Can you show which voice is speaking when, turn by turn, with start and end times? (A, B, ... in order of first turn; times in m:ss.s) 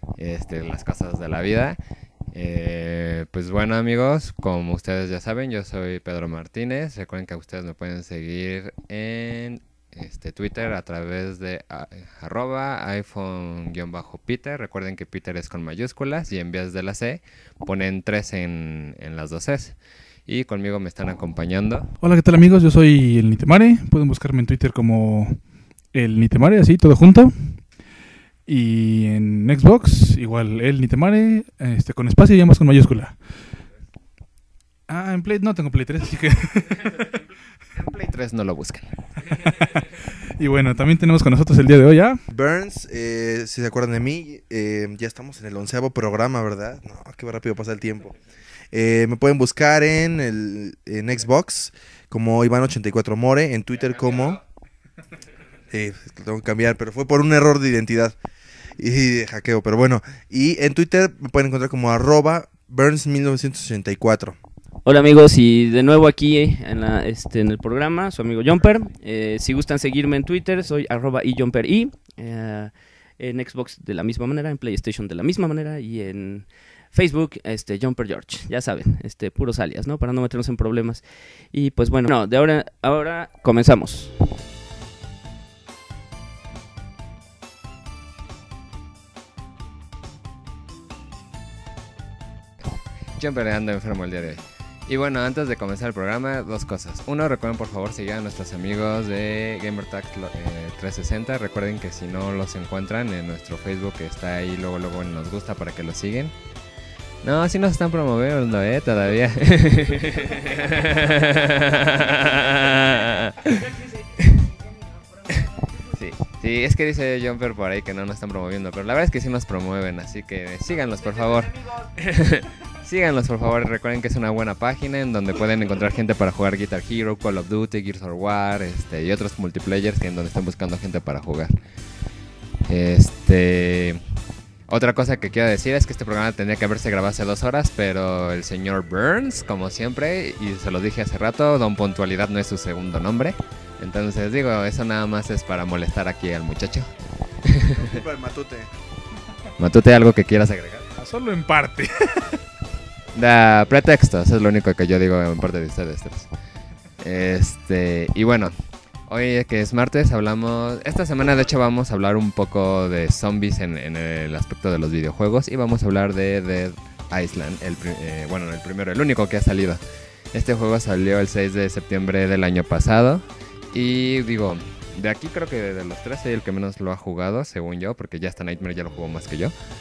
0:00.2-0:01.8 A
0:02.3-0:21.9 A
0:22.0-0:25.4 B
0:25.9-0:27.7 B
0:28.5-0:33.2 B
0:34.9-0:37.1 B
0:37.7-0:38.9 A
0:39.3-0:42.2 B
0:42.3-0:48.2 C
0:48.7-0:54.4 C
0:55.7-0:58.2 C
0:58.8-1:04.4 C
1:04.9-1:21.0 D
1:21.5-1:24.1 D
1:33.2-1:46.4 A
1:47.2-1:54.5 A
1:55.3-2:11.6 A
2:12.7-2:14.0 A
2:14.7-2:26.9 A
2:27.4-2:27.9 A
2:27.7-2:28.7 C
2:29.6-2:30.9 A
2:31.0-2:32.4 B
2:33.1-2:36.3 A
2:37.0-2:38.5 A
2:39.1-2:49.8 A
2:50.3-2:59.5 A